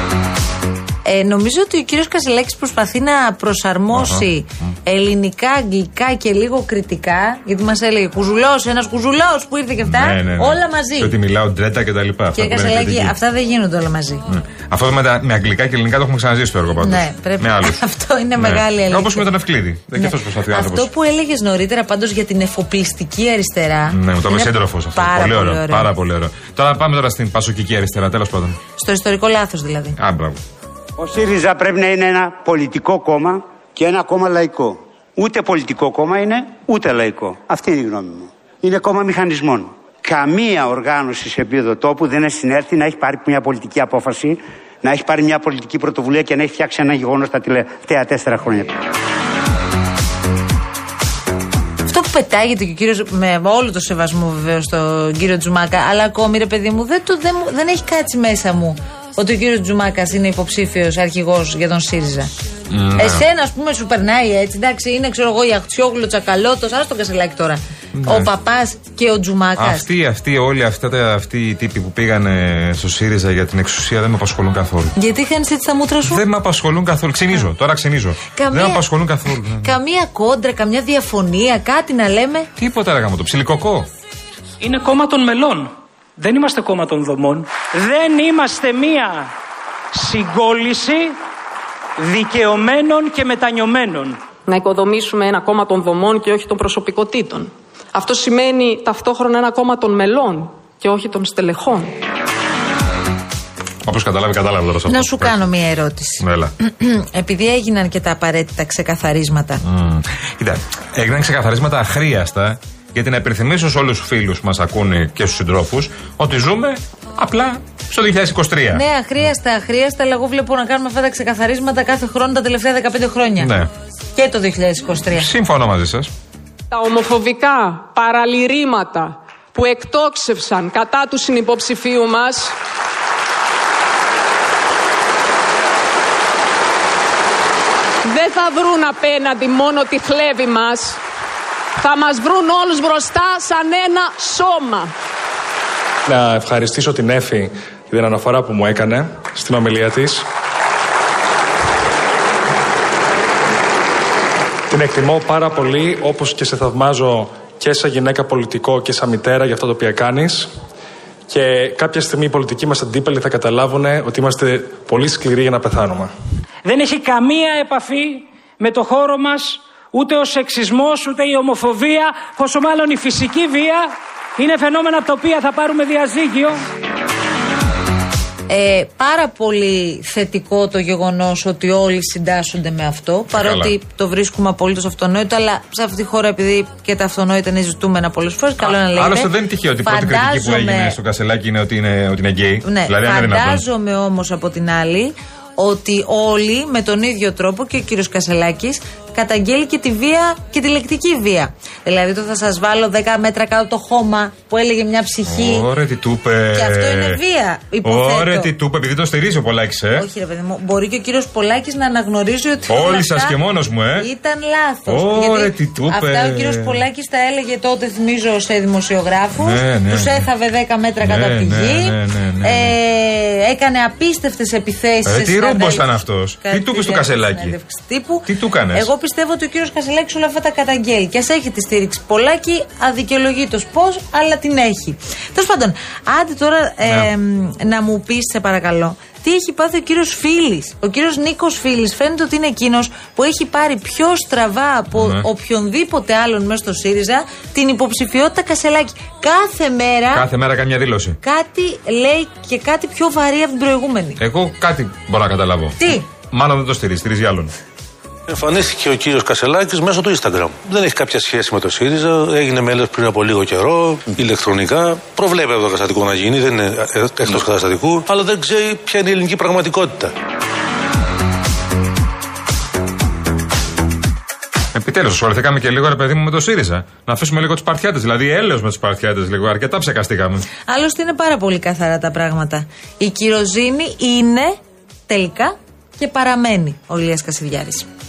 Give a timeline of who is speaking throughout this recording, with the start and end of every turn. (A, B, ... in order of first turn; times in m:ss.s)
0:01.0-0:11.2 A
0:03.9-0:04.2 B
0:09.8-0:13.2 B
0:12.3-0:14.2 A
0:14.3-0:17.8 B
0:16.8-0:19.3 A
0:18.4-0:20.9 B
0:19.9-0:25.9 A
0:23.9-0:28.6 B
0:28.8-0:30.0 A
0:30.0-0:30.4 B
0:31.0-0:48.7 C
0:51.9-1:02.3 A
1:02.7-1:03.3 B
1:03.0-1:09.8 A
1:07.9-1:08.3 B
1:09.6-1:14.9 B
1:15.0-1:16.2 A
1:16.0-1:19.7 B
1:18.3-1:18.8 A
1:19.6-1:22.5 A
1:22.6-1:23.9 B
1:24.6-1:29.3 D
1:29.9-1:31.2 D
1:32.0-1:34.2 D
1:34.4-1:42.0 E
1:43.8-1:45.4 B
1:44.9-1:49.6 A
1:46.2-1:46.5 B
1:49.6-1:58.8 B
1:58.7-2:03.5 A
2:03.4-2:03.7 B
2:04.1-2:05.3 A
2:05.2-2:06.1 B
2:06.7-2:12.5 E
2:18.0-2:21.0 E
2:21.8-2:24.9 E
2:26.1-2:30.3 F
2:34.7-2:40.5 F
2:41.3-2:46.1 F
2:46.6-2:56.6 D
2:58.5-3:09.3 A
3:03.3-3:03.7 B
3:08.6-3:13.6 B
3:09.8-3:11.0 A
3:12.6-3:25.7 A
3:25.2-3:27.2 B
3:26.5-3:28.5 A
3:27.8-3:30.1 B
3:29.9-3:33.4 A
3:32.7-3:34.1 B
3:34.0-4:10.3 A
3:34.8-3:36.8 B
3:39.4-3:40.2 B
3:41.0-3:42.7 B
3:45.0-3:47.6 B
3:48.2-3:48.9 B
3:56.8-3:57.1 B
4:04.9-4:05.2 B
4:10.1-4:11.2 B
4:11.2-4:14.2 A
4:14.2-4:17.5 B
4:15.8-4:16.1 A
4:18.3-4:30.1 G
4:34.7-4:40.5 B
4:40.6-4:44.6 A
4:45.1-4:47.8 A